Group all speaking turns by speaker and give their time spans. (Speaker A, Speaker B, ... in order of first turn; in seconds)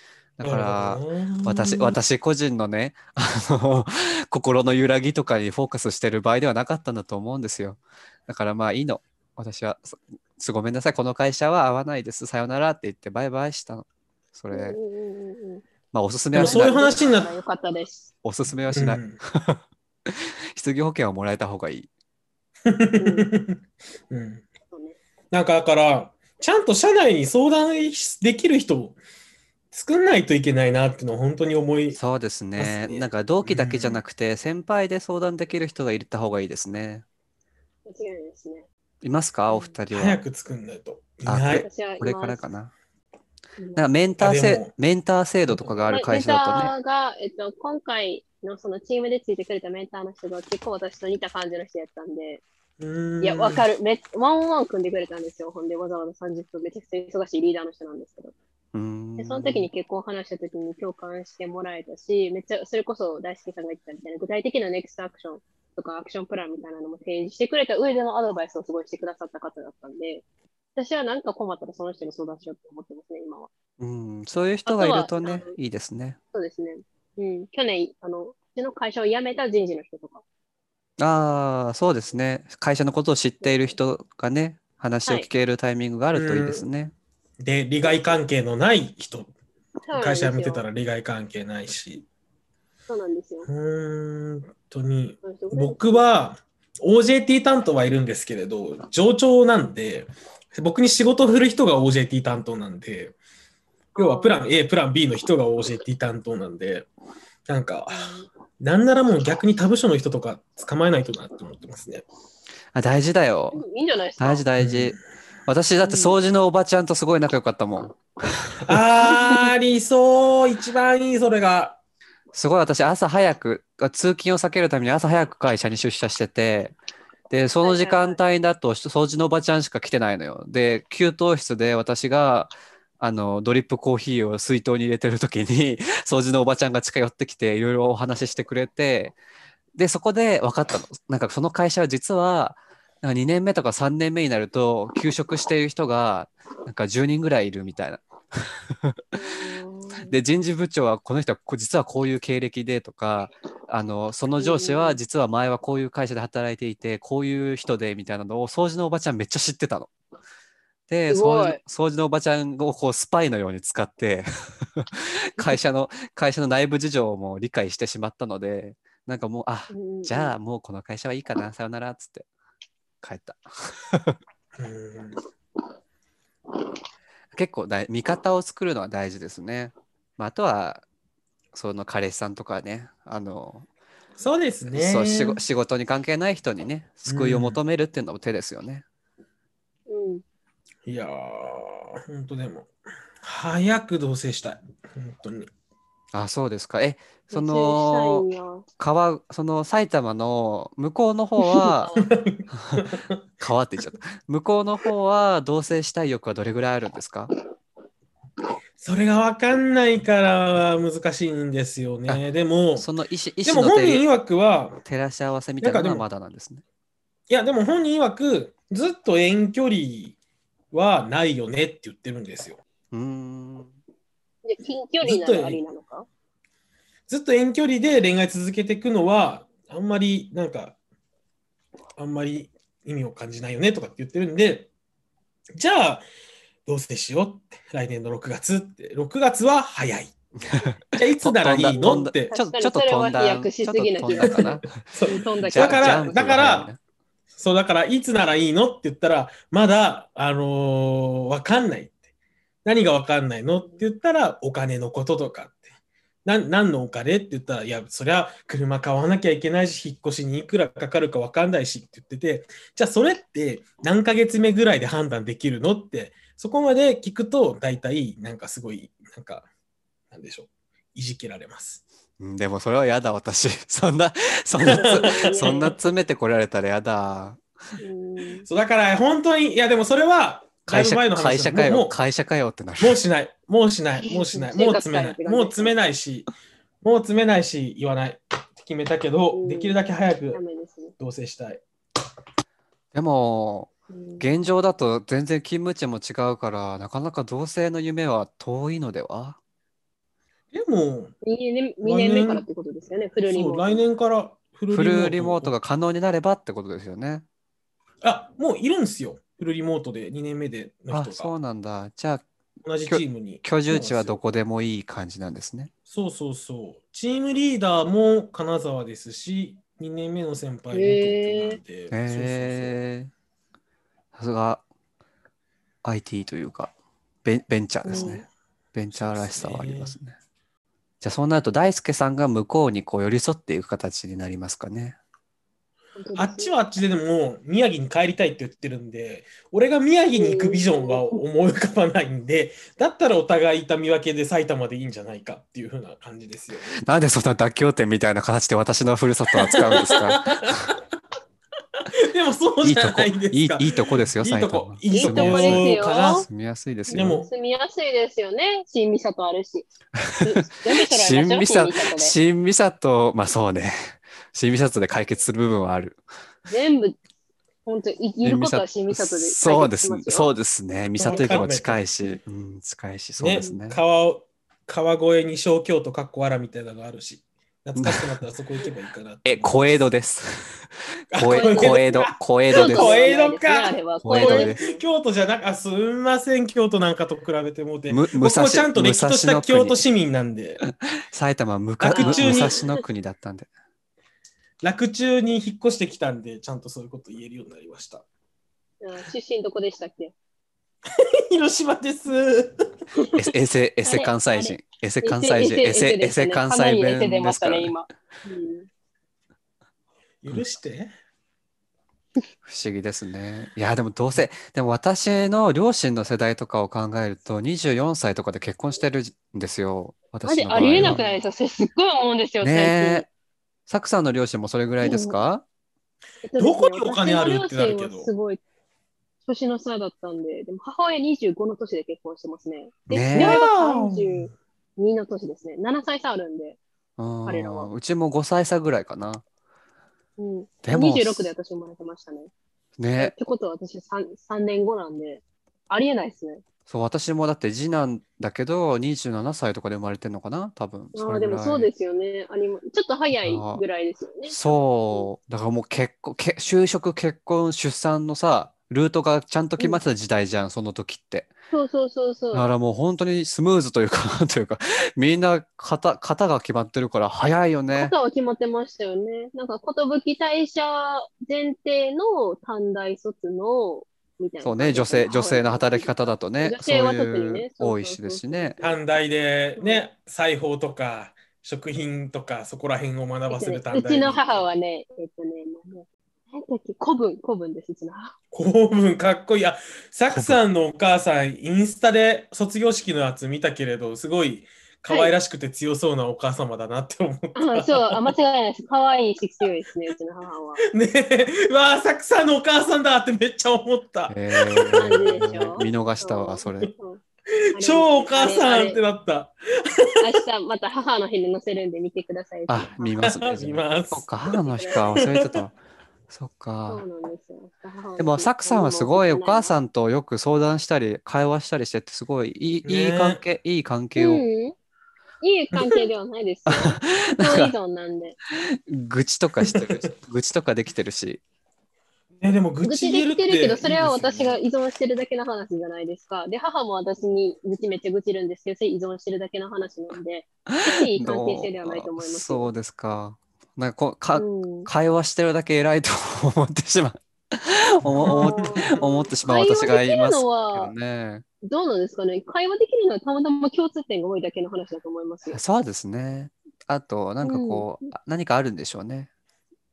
Speaker A: 0.4-14.8, 15.9-17.0, 18.2-21.9, 31.9-37.0, 39.0-40.2, 41.2-42.7, 43.8-46.7, 58.7-59.7, 73.8-76.2, 81.0-86.9, 112.7-113.6, 114.2-118.8, 122.3-126.8, 127.3-139.1, 139.7-149.2, 150.0-159.9, 160.9-172.2, 173.0-174.2, 177.3-180.8, 181.5-183.7, 184.7-188.8, 196.1-198.2, 198.8-201.9, 202.5-202.9, 203.4-207.3, 212.8-214.0, 214.8-216.6, 222.9-223.7, 240.5-246.8, 272.2-277.4, 280.7-283.0, 292.9-299.4, 304.7-307.2, 310.9-312.2, 312.9-315.7, 321.9-323.1, 324.1-324.6, 325.8-326.7, 327.2-330.1, 331.0-335.0, 346.8-350.7, 352.6-357.2, 360.0-366.0, 368.2-373.8, 377.8-378.1, 379.2-383.1, 384.0-384.6, 387.9-389.8, 390.6-393.5, 403.2-407.7, 412.4-421.0, 422.4-423.1, 423.7-425.4, 432.9-433.4, 437.0-439.2, 440.6-441.3, 442.8-443.1, 446.7-451.7, 453.1-453.6, 454.2-461.3, 462.3-467.9, 474.4-478.6, 490.1-490.4, 504.1-506.7, 512.5-515.5, 516.1-516.8, 518.0-524.2, 526.5-527.5, 528.7-531.2, 540.5-551.2, 555.3-559.1
Speaker B: 0.4-2.0, 16.3-17.3, 18.7-19.2, 22.6-24.5, 25.3-29.0, 29.7-32.0, 32.6-34.0, 39.9-41.7, 44.2-44.7, 45.5-45.9, 52.8-53.6, 86.1-86.7, 87.4-89.3, 89.9-92.0, 93.5-103.1, 104.0-106.9, 107.5-112.0, 114.6-115.0, 118.6-121.8, 174.6-175.2, 184.2-185.4, 187.1-187.6, 190.8-192.7, 193.2-195.5, 201.9-203.2, 208.8-212.9, 213.4-214.8, 215.6-216.1, 217.3-220.2, 220.7-222.6, 225.0-225.6, 227.1-230.8, 232.0-234.7, 235.5-236.0, 236.7-240.1, 240.9-242.3, 244.2-246.7, 247.3-252.0, 252.6-255.6, 256.2-269.5, 270.1-271.8, 274.6-275.8, 278.5-281.9, 282.8-286.3, 286.8-290.4, 291.0-291.6, 300.5-301.1, 301.8-302.4, 303.2-305.5, 308.0-311.3, 312.6-314.2, 315.9-322.8, 327.9-328.2, 328.9-329.9, 336.1-346.7, 349.4-350.8, 351.8-356.3, 356.9-357.3, 371.0-371.8, 373.2-379.9, 381.1-390.6, 391.8-392.6, 394.6-398.0, 400.9-402.6, 410.2-410.9, 420.7-421.1, 426.4-428.1, 433.1-434.3, 478.6-484.4, 488.3-498.1, 500.7-505.7, 507.3-510.1, 513.0-515.4, 522.6-523.2, 529.4-529.8, 532.2-534.4, 547.8-548.8
Speaker C: 14.5-15.6, 16.4-18.1, 23.0-23.3, 24.7-25.0, 37.9-38.6, 39.5-39.8, 41.5-42.4, 43.6-44.1, 45.9-52.4, 53.2-58.3, 59.2-70.2, 70.7-73.5, 74.7-75.5, 76.3-80.2, 83.4-83.8, 87.8-88.2, 89.8-90.6, 92.9-93.5, 95.2-96.1, 103.9-104.4, 107.9-108.3, 113.5-114.4, 115.8-116.2, 127.6-128.2, 149.2-150.1, 154.4-155.0, 161.1-161.6, 169.7-170.3, 189.9-190.2, 197.3-198.6, 201.4-202.1, 224.4-226.1, 241.7-246.3, 274.7-275.7, 277.8-278.4, 284.0-285.8, 289.3-289.8, 290.3-290.9, 293.9-294.5, 301.2-303.8, 320.7-321.6, 327.9-328.2, 335.9-336.5, 340.1-341.2, 354.9-356.2, 356.9-359.7, 360.2-362.1, 366.5-367.0, 367.6-370.3, 371.1-371.4, 381.2-381.9, 382.5-384.8, 391.9-392.8, 398.8-400.1, 402.9-403.3, 403.8-408.7, 420.2-423.1, 424.8-425.2, 426.2-428.4, 429.2-436.6, 437.2-437.7, 440.2-442.3, 443.0-446.4, 450.9-455.1, 461.5-462.5, 467.7-478.8, 479.6-479.9, 483.3-488.1, 494.9-495.1, 497.3-500.6, 504.7-507.0, 507.5-508.8, 510.0-513.0, 514.5-514.8, 516.7-519.5, 524.0-524.5, 525.2-528.2, 532.6-542.5, 544.1-544.7, 548.1-550.7, 551.4-555.4, 557.2-557.9